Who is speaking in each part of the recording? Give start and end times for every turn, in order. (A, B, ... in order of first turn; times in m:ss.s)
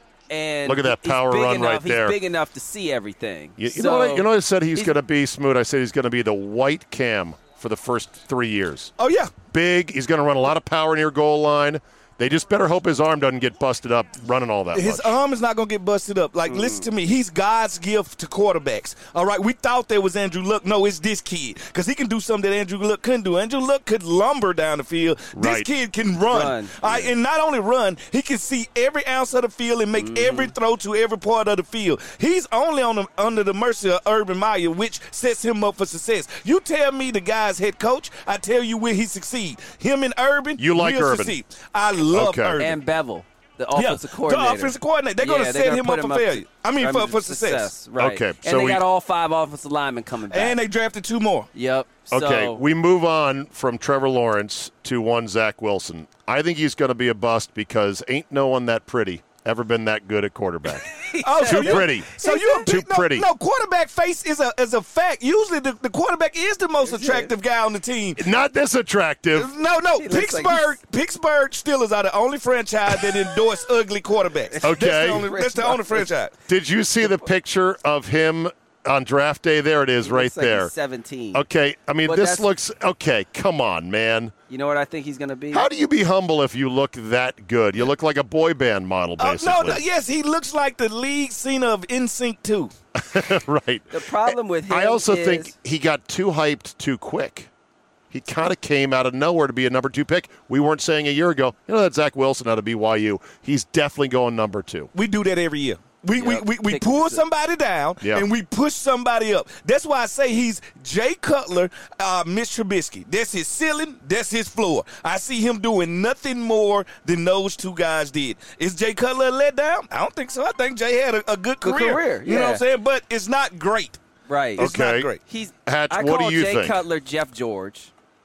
0:00.3-0:04.9 A
0:00.6-0:02.2 B
0:03.6-0:08.9 B
0:09.0-0:09.3 C
0:09.5-0:15.2 B
0:14.7-0:42.8 C
0:16.5-0:16.9 A
0:25.3-0:25.7 B
0:26.3-0:27.1 A
0:30.0-0:30.5 A
0:40.6-0:41.4 B
0:42.1-0:42.6 B
0:42.6-0:50.6 A
0:43.7-0:47.7 C
0:48.0-0:48.8 B
0:50.3-0:51.5 C
0:51.5-0:52.6 A
0:52.1-1:00.9 B
1:00.9-1:01.9 A
1:01.2-1:08.2 C
1:01.4-1:03.3 B
1:06.8-1:07.3 A
1:08.2-1:09.5 B
1:09.3-1:16.3 C
1:10.0-1:10.8 A
1:14.5-1:16.1 A
1:14.6-1:15.2 B
1:16.5-1:20.7 B
1:20.0-1:21.4 A
1:21.3-1:24.3 B
1:22.0-1:22.5 A
1:24.5-1:25.7 A
1:25.5-1:29.8 B
1:29.2-1:32.7 C
1:32.9-1:37.5 B
1:33.9-1:35.5 A
1:38.1-1:44.9 B
1:44.9-2:04.0 C
1:46.2-1:47.2 A
1:48.0-1:48.2 B
2:01.6-2:02.6 A
2:04.3-2:04.7 A
2:04.6-2:05.2 C
2:04.6-2:05.1 B
2:05.2-2:07.9 A
2:05.6-2:06.8 B